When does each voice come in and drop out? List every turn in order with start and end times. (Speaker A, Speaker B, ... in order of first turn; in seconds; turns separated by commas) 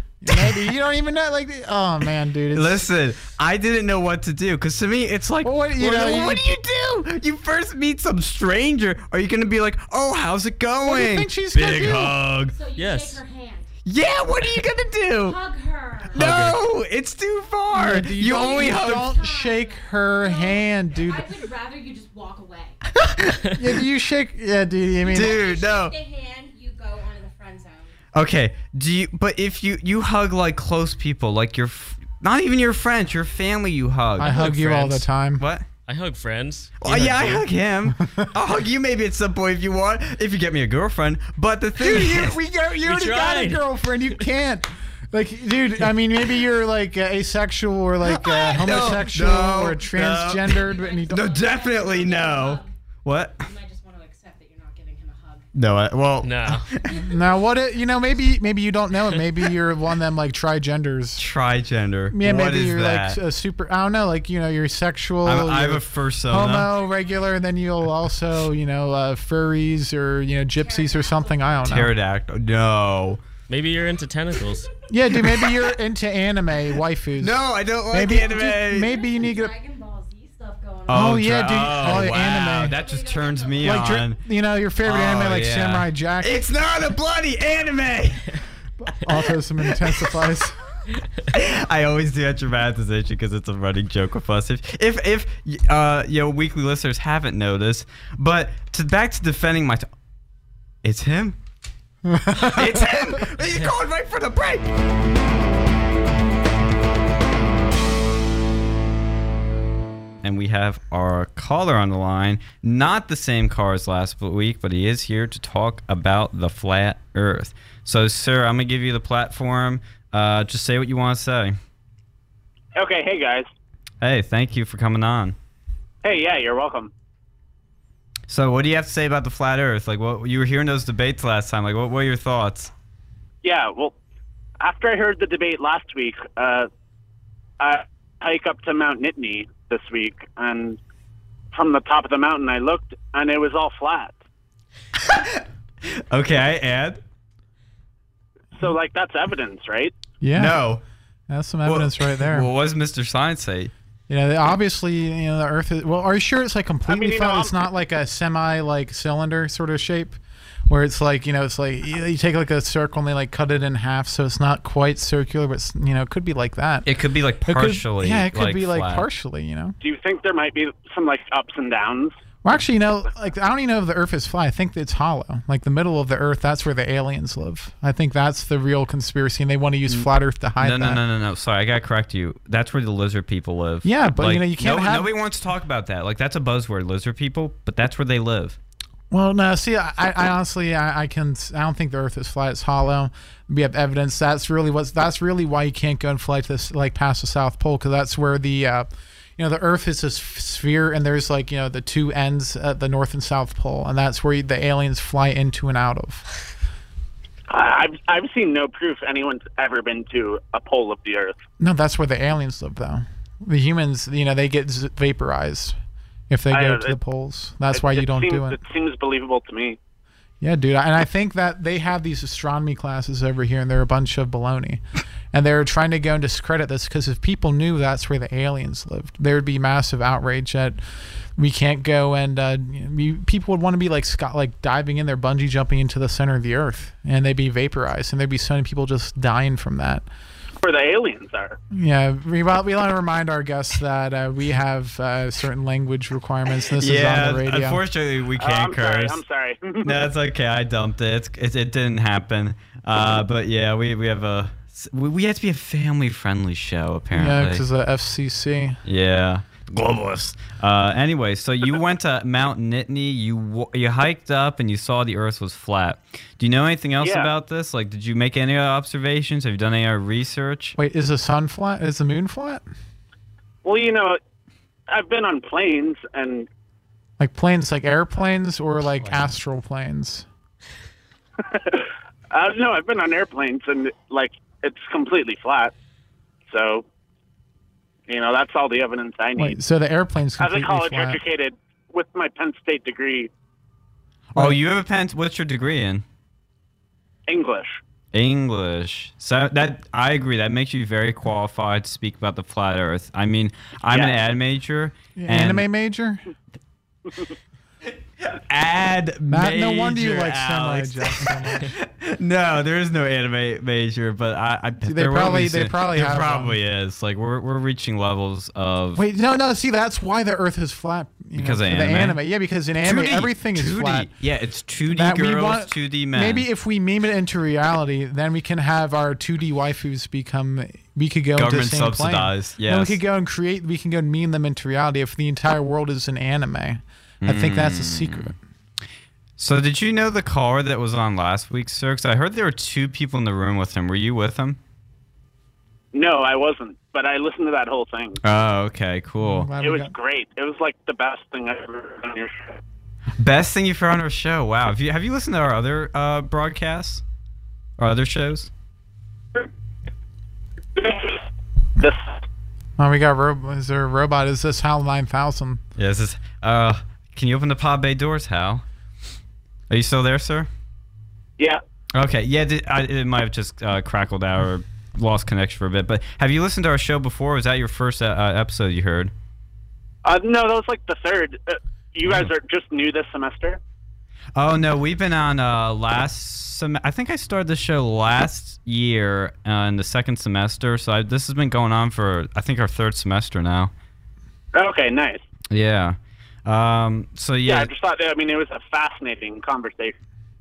Speaker A: 0.2-2.9, Speaker B: 2.5-12.6, Speaker A: 5.4-6.5, Speaker A: 10.9-12.2, Speaker C: 12.5-13.7, Speaker D: 12.8-13.2, Speaker B: 13.9-15.4, Speaker C: 15.2-16.3, Speaker B: 16.1-19.2, Speaker D: 16.1-16.6, Speaker A: 17.7-21.3, Speaker C: 18.3-22.8, Speaker B: 23.0-23.4, Speaker A: 23.6-25.4, Speaker C: 25.0-27.9, Speaker B: 25.1-25.9, Speaker B: 28.1-35.7, Speaker A: 34.2-35.4, Speaker D: 34.2-34.6, Speaker D: 35.9-37.4, Speaker B: 36.8-42.4, Speaker A: 38.0-38.3, Speaker A: 41.8-51.4, Speaker D: 42.8-43.7, Speaker B: 48.0-53.5, Speaker C: 50.5-52.7, Speaker C: 53.4-55.5, Speaker B: 55.5-57.0, Speaker D: 56.2-56.7, Speaker C: 56.8-57.2, Speaker A: 57.1-61.2, Speaker B: 61.2-63.2, Speaker A: 62.1-71.9, Speaker B: 65.2-66.7, Speaker C: 70.5-71.9, Speaker B: 71.7-73.2, Speaker D: 73.5-74.7, Speaker A: 74.9-79.5, Speaker B: 75.2-75.5, Speaker B: 77.2-78.9, Speaker C: 78.0-84.0, Speaker B: 80.9-84.2, Speaker A: 80.9-82.8, Speaker A: 83.6-86.4, Speaker B: 84.8-88.4, Speaker A: 88.8-90.6, Speaker B: 91.3-99.9, Speaker B: 100.8-101.4, Speaker A: 102.1-102.9, Speaker B: 102.3-104.7, Speaker B: 110.2-121.6, Speaker E: 122.8-123.5, Speaker B: 124.0-125.4, Speaker E: 126.0-126.9, Speaker B: 128.3-132.7, Speaker E: 133.4-133.9, Speaker E: 134.6-136.7, Speaker E: 137.6-140.8, Speaker E: 141.5-144.2, Speaker B: 145.0-147.0, Speaker E: 148.6-150.0, Speaker A: 150.2-150.6, Speaker B: 150.3-150.8, Speaker A: 151.3-152.5, Speaker B: 151.7-153.7, Speaker A: 154.1-166.9, Speaker E: 156.9-157.5, Speaker B: 166.9-169.1, Speaker A: 167.5-169.8, Speaker E: 169.8-172.2, Speaker A: 172.4-181.0, Speaker B: 180.6-188.6, Speaker A: 183.8-185.1, Speaker A: 189.1-206.3, Speaker E: 207.5-211.3, Speaker A: 211.6-215.8, Speaker A: 216.3-218.6, Speaker E: 216.5-216.9, Speaker E: 217.7-219.8, Speaker A: 220.4-230.8, Speaker A: 231.4-240.1, Speaker E: 240.6-241.6, Speaker A: 241.7-247.8, Speaker B: 246.8-249.2, Speaker E: 248.4-250.0, Speaker B: 249.8-257.6, Speaker A: 257.1-258.8, Speaker B: 258.9-270.8, Speaker E: 267.0-267.3, Speaker A: 270.8-272.6, Speaker E: 273.6-274.2, Speaker E: 274.9-276.5, Speaker A: 277.2-280.3, Speaker E: 281.4-285.7, Speaker E: 286.5-286.9, Speaker E: 288.1-289.6, Speaker A: 289.4-291.2, Speaker E: 290.4-293.3, Speaker B: 294.3-296.1, Speaker E: 297.3-297.8, Speaker B: 298.1-305.7, Speaker A: 305.2-306.2, Speaker B: 308.2-319.0, Speaker A: 309.3-311.8, Speaker A: 314.8-316.6, Speaker A: 319.0-324.1, Speaker B: 321.4-322.2, Speaker B: 322.8-326.5, Speaker A: 324.9-338.4, Speaker B: 331.4-333.0, Speaker B: 337.2-338.3, Speaker B: 339.4-344.6, Speaker E: 345.9-348.2, Speaker B: 348.2-349.5, Speaker A: 349.2-349.9, Speaker E: 349.6-352.6, Speaker B: 353.2-357.0, Speaker B: 357.8-358.5, Speaker E: 360.8-361.2, Speaker E: 361.8-362.2, Speaker A: 362.8-365.6, Speaker B: 365.8-368.6, Speaker B: 369.7-370.5, Speaker B: 371.9-379.1, Speaker E: 380.0-383.6, Speaker B: 384.4-393.7, Speaker E: 394.5-395.2, Speaker B: 395.5-397.7, Speaker E: 397.4-400.0